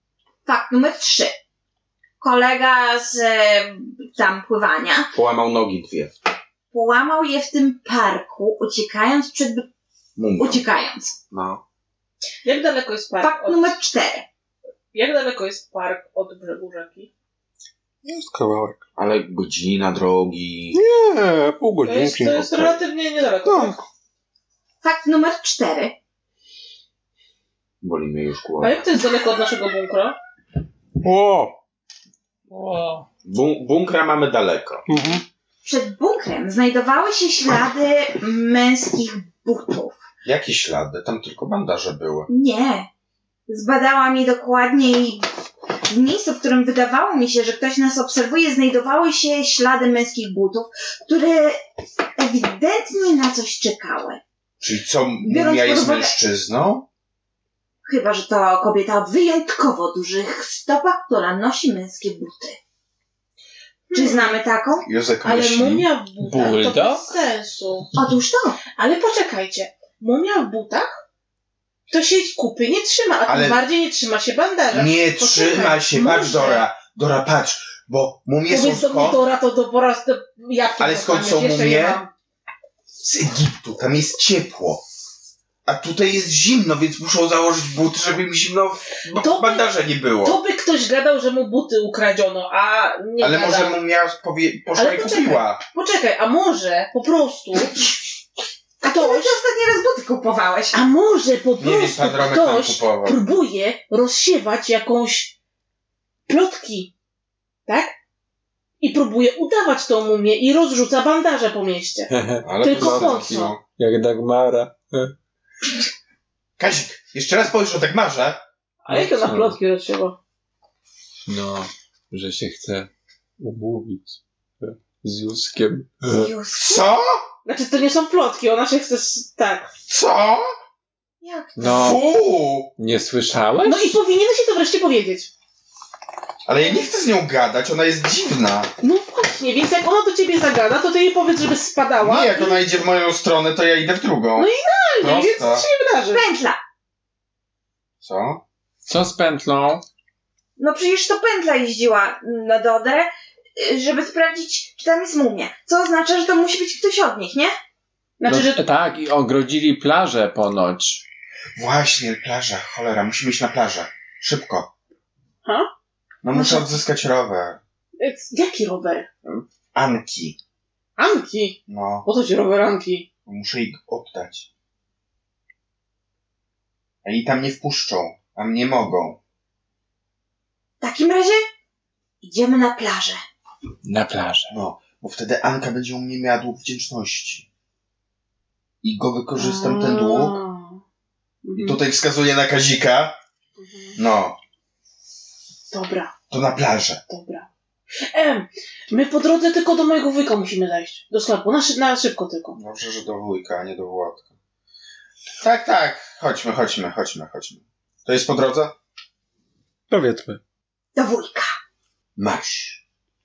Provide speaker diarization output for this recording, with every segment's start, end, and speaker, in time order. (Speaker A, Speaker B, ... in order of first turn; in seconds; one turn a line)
Speaker A: 0.4-1.4
Speaker A: 2.2-5.1
Speaker B: 5.1-6.1
Speaker A: 6.7-9.7
Speaker B: 10.2-10.6
Speaker A: 10.3-11.1
Speaker B: 11.3-11.6
Speaker C: 12.4-13.8
Speaker A: 13.2-14.2
Speaker C: 14.9-17.1
Speaker D: 18.0-18.8
Speaker B: 18.9-20.8
Speaker D: 20.7-22.7
Speaker C: 21.8-23.8
Speaker D: 23.4-23.8
Speaker A: 24.8-26.0
Speaker B: 27.8-28.9
Speaker C: 28.6-30.1
Speaker D: 31.0-31.6
Speaker E: 32.5-33.0
Speaker B: 33.2-34.9
Speaker D: 34.9-35.2
Speaker A: 35.6-40.0
Speaker B: 40.2-42.3
Speaker A: 42.3-42.9
Speaker A: 43.5-45.3
Speaker A: 45.9-51.6
Speaker A: 52.2-54.2
Speaker B: 54.6-56.9
Speaker A: 55.2-56.1
Speaker A: 57.8-62.6
Speaker C: 63.9-64.4
Speaker A: 63.9-64.9
Speaker B: 64.8-65.9
Speaker C: 65.2-67.9
Speaker E: 66.2-67.1
Speaker A: 67.9-68.6
Speaker C: 68.8-71.0
Speaker C: 71.9-76.6
Speaker B: 73.3-73.6
Speaker B: 74.7-79.2
Speaker A: 76.0-76.6
Speaker C: 78.5-82.1
Speaker B: 80.8-82.0
Speaker B: 83.0-84.8
Speaker B: 85.6-90.4
Speaker C: 89.1-89.7
Speaker C: 90.2-93.8
Speaker B: 93.2-95.6
Speaker C: 94.7-97.8
Speaker A: 98.8-100.8
Speaker C: 98.8-99.3
Speaker C: 100.7-105.3
Speaker B: 101.6-103.2
Speaker C: 106.3-106.9
Speaker C: 107.7-107.9
Speaker C: 108.8-112.1
Speaker E: 112.1-115.1
Speaker B: 112.4-113.6
Speaker C: 112.6-113.5
Speaker B: 116.6-118.4
Speaker C: 118.8-120.2
Speaker E: 118.9-119.5
Speaker E: 121.2-126.3
Speaker A: 126.1-126.9
Speaker B: 126.5-127.2
Speaker C: 127.4-129.7
Speaker B: 129.9-130.5
Speaker A: 131.2-131.9
Speaker E: 131.6-132.0
Speaker B: 131.6-132.7
Speaker E: 132.8-133.9
Speaker C: 133.6-135.3
Speaker B: 136.4-138.7
Speaker C: 138.8-142.6
Speaker B: 142.0-144.5
Speaker C: 144.3-146.2
Speaker B: 145.0-145.6
Speaker A: 146.1-146.6
Speaker B: 148.0-148.4
Speaker E: 148.8-149.8
Speaker A: 150.6-157.5
Speaker C: 158.2-158.6
Speaker E: 158.3-161.0
Speaker B: 161.6-164.7
Speaker B: 166.2-167.6
Speaker A: 166.3-166.8
Speaker C: 168.0-169.1
Speaker B: 169.2-170.4
Speaker C: 171.0-173.1
Speaker B: 171.7-172.1
Speaker B: 173.2-174.5
Speaker B: 177.0-179.2
Speaker A: 180.8-181.4
Speaker A: 182.2-183.2
Speaker E: 183.8-184.5
Speaker B: 184.5-187.5
Speaker B: 188.8-190.4
Speaker C: 189.4-190.8
Speaker A: 189.5-189.9
Speaker C: 191.4-191.8
Speaker B: 191.6-193.2
Speaker C: 193.6-194.0
Speaker B: 194.0-194.4
Speaker C: 195.7-196.1
Speaker B: 196.3-197.0
Speaker C: 197.1-197.5
Speaker C: 198.1-202.6
Speaker B: 202.5-204.3
Speaker B: 205.4-208.7
Speaker D: 209.9-210.4
Speaker A: 210.9-211.5
Speaker B: 212.2-212.8